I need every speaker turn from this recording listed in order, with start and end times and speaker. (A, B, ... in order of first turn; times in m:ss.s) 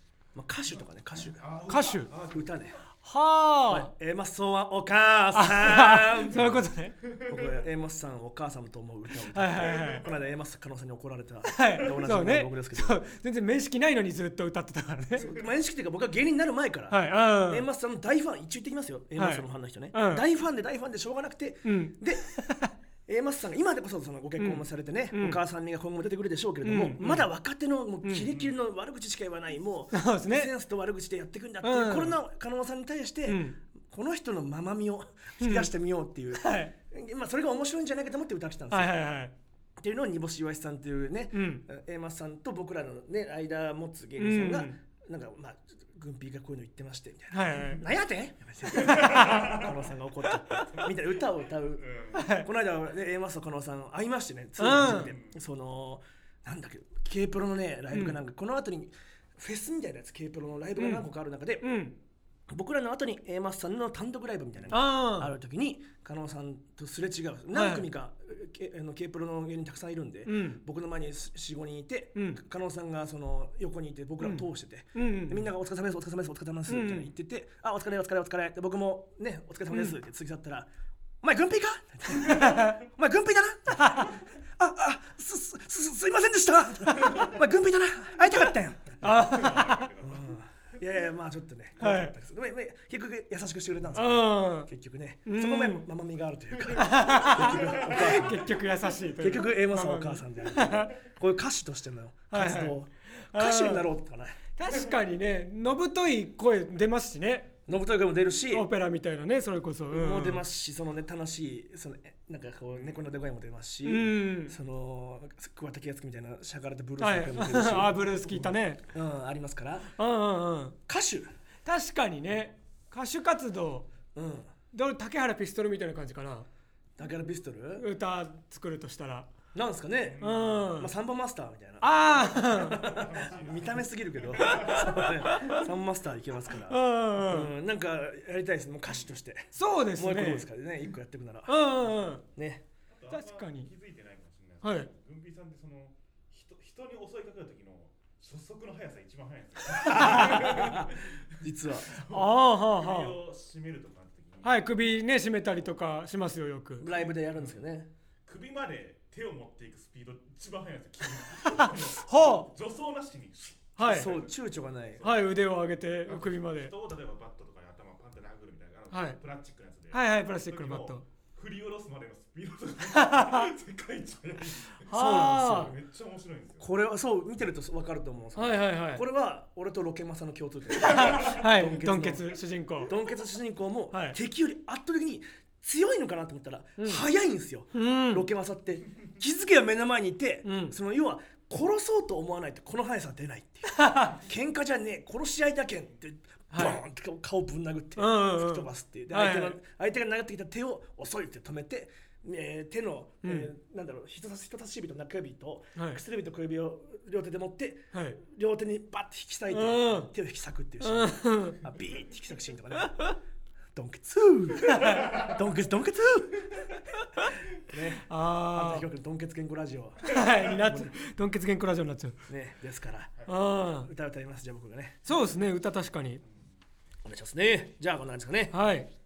0:00.3-0:02.8 A
0:01.2-0:02.7 B
0:01.7-0:02.1 C
0:03.0-0:03.9 C
0:03.7-0:06.6 A
0:05.3-0:07.0 C
0:07.0-0:07.6 B
0:07.3-0:13.0 A
0:09.3-0:10.0 C
0:11.4-0:15.3 C
0:15.2-0:22.2 A
0:16.9-0:17.6 C
0:19.2-0:20.2 C
0:21.6-0:22.7 C
0:23.1-0:38.9 A
0:24.4-0:25.4 C
0:26.6-0:27.3 C
0:28.0-0:28.3 C
0:29.9-0:30.5 C
0:31.6-0:32.2 C
0:33.2-0:33.6 C
0:35.4-0:35.7 C
0:36.3-0:36.7 C
0:38.7-0:39.3 C
0:39.8-1:01.7 A
0:41.3-0:41.6 C
0:44.2-0:44.7 C
0:47.3-0:47.8 C
0:48.7-0:49.6 C
0:48.9-0:49.6 B
0:51.8-0:52.2 B
0:52.1-0:52.5 C
0:54.6-0:55.1 C
0:54.8-0:55.4 B
0:57.9-0:58.2 C
1:00.8-1:01.1 C
1:01.6-1:01.9 C
1:02.5-1:20.7 A
1:04.7-1:05.3 C
1:07.5-1:07.8 C
1:10.2-1:10.6 C
1:12.1-1:12.4 C
1:14.2-1:15.4 C
1:16.7-1:17.1 C
1:21.2-1:29.4 A
1:22.1-1:22.8 C
1:23.8-1:24.1 C
1:29.0-1:29.9 C
1:29.0-1:30.3 B
1:30.0-1:38.4 A
1:31.8-1:32.1 C
1:33.9-1:34.7 C
1:35.2-1:35.8 C
1:36.7-1:40.9 C
1:37.6-1:38.1 B
1:39.2-1:44.4 A
1:42.3-1:42.8 C
1:43.3-1:43.8 C
1:44.6-1:47.6 C
1:47.7-1:48.6 A
1:48.5-1:50.4 C
1:49.9-1:58.0 A
1:53.8-1:54.6 C
1:57.0-1:58.8 C
1:57.7-1:58.6 B
1:58.9-1:59.9 A
2:00.0-2:00.8 C
2:00.9-2:01.3 A
2:01.6-2:03.9 C
2:04.1-2:04.5 A
2:04.7-2:06.5 C
2:07.0-2:07.8 A
2:07.8-2:09.3 C
2:09.5-2:22.6 A
2:10.1-2:10.7 B
2:10.2-2:10.9 C
2:11.8-2:13.0 C
2:12.7-2:15.1 B
2:14.7-2:15.6 C
2:16.7-2:17.5 C
2:19.5-2:20.5 C
2:21.5-2:22.2 C
2:22.9-2:35.0 B
2:23.1-2:23.7 C
2:24.6-2:24.9 C
2:29.8-2:32.0 A
2:29.9-2:30.5 C
2:32.1-2:33.2 C
2:34.4-2:36.9 C
2:36.8-2:37.9 A
2:36.9-2:37.6 B
2:38.2-2:45.2 B
2:41.6-2:42.5 C
2:43.8-2:44.1 C
2:43.8-2:45.0 A
2:45.0-2:46.7 C
2:46.0-2:56.7 B
2:48.9-2:49.2 C
2:49.9-2:51.0 C
2:52.9-2:53.5 C
2:54.9-2:55.7 C
2:54.9-2:55.7 A
2:56.6-3:02.2 A
2:58.3-2:59.0 C
3:00.8-3:02.9 C
3:02.9-3:33.1 A
3:03.9-3:04.2 C
3:06.8-3:07.0 C
3:07.7-3:08.2 C
3:10.4-3:10.7 C
3:13.7-3:14.2 C
3:16.5-3:16.8 C
3:18.0-3:19.6 C
3:23.2-3:23.5 C
3:25.8-3:26.0 C
3:27.9-3:28.2 C
3:29.5-3:30.1 C
3:30.8-3:31.6 C
3:33.7-3:36.8 A
3:34.7-3:35.1 C
3:37.6-3:40.9 A
3:38.0-3:38.9 C
3:40.1-3:42.2 C
3:42.3-3:45.0 A
3:43.2-3:43.9 C
3:45.0-3:46.2 C
3:47.0-3:48.5 A
3:48.5-3:48.9 C